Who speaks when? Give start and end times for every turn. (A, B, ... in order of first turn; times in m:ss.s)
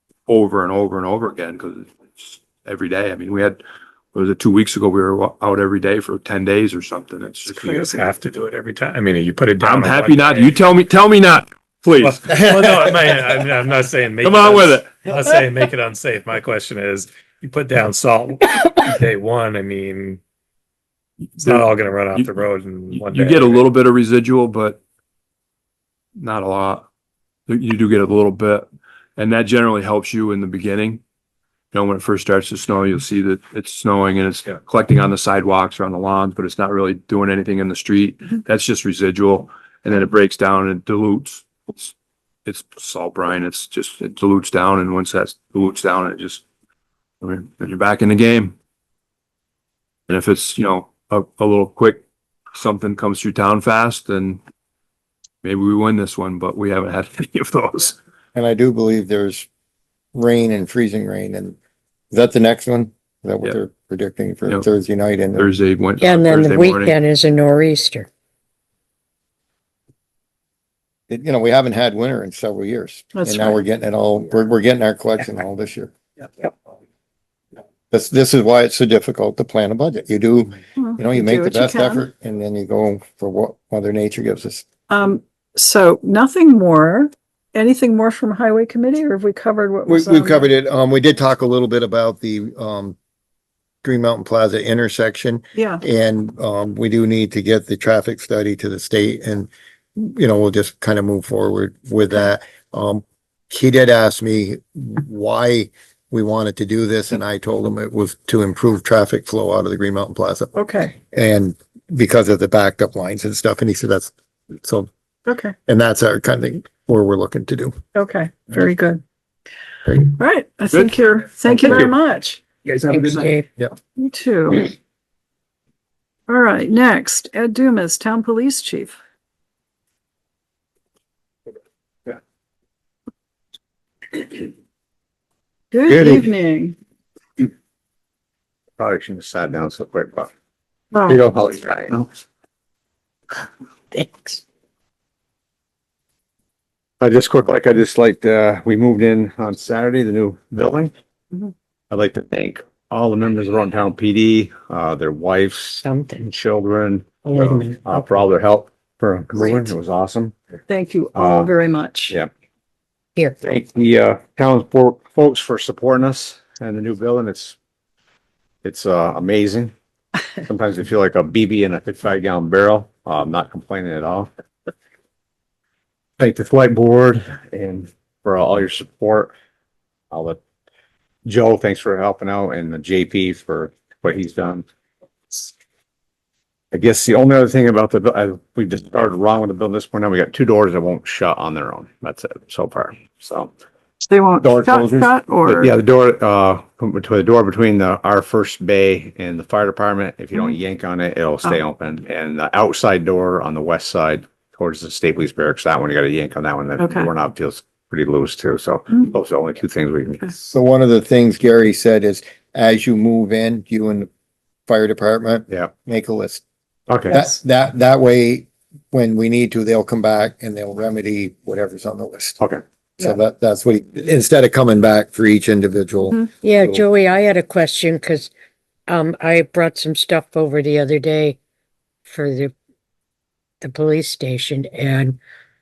0:00.3-0:03.6 A
0:04.1-0:08.0 A
0:07.5-0:10.5 B
0:09.6-0:12.7 A
0:12.0-0:20.2 B
0:14.2-0:15.0 A
0:21.4-0:22.3 A
0:21.4-0:23.6 B
0:22.9-0:24.8 A
0:26.2-0:26.8 A
0:27.5-0:31.0 A
0:31.7-0:41.9 A
0:42.4-0:46.4 A
0:47.2-0:48.5 A
0:50.1-0:52.0 A
0:52.5-0:54.4 A
0:55.4-0:58.0 A
0:58.3-0:59.5 C
1:00.1-1:01.6 C
1:02.1-1:05.6 C
1:05.3-1:07.0 A
1:06.0-1:08.1 D
1:11.1-1:15.9 C
1:13.1-1:13.6 E
1:17.9-1:24.7 C
1:20.8-1:22.0 E
1:24.9-1:30.5 E
1:29.9-1:33.0 C
1:33.8-1:50.6 C
1:35.6-1:35.8 E
1:50.6-1:50.9 E
1:51.1-1:54.9 C
1:55.2-1:55.6 E
1:55.7-1:57.8 C
1:57.9-1:59.0 E
1:59.9-2:00.2 C
2:00.2-2:02.4 E
2:01.5-2:01.9 C
2:02.9-2:03.5 D
2:04.0-2:04.7 E
2:06.3-2:09.0 E
2:15.7-2:16.8 E
2:15.9-2:16.3 F
2:18.8-2:20.3 F
2:20.9-2:21.2 E
2:21.1-2:22.1 F
2:23.9-2:24.4 D
2:27.0-2:30.9 F
2:31.9-2:40.3 F
2:35.8-2:36.3 D
2:37.2-2:38.0 D
2:40.7-2:42.2 E
2:41.2-2:41.5 F
2:43.4-2:47.6 F
2:48.6-2:49.7 F
2:50.4-2:54.3 F
2:56.2-2:59.3 F
3:00.1-3:00.4 F
3:01.2-3:04.6 F
3:06.7-3:13.5 F
3:14.0-3:15.7 E
3:14.4-3:30.3 F
3:26.8-3:27.1 E
3:30.4-3:34.1 C
3:34.7-3:36.4 C
3:36.9-3:37.2 F
3:37.1-3:42.4 C
3:43.0-3:46.2 C
3:46.4-3:48.3 D
3:48.9-3:51.4 D
3:52.1-3:52.5 D
3:53.6-3:55.2 D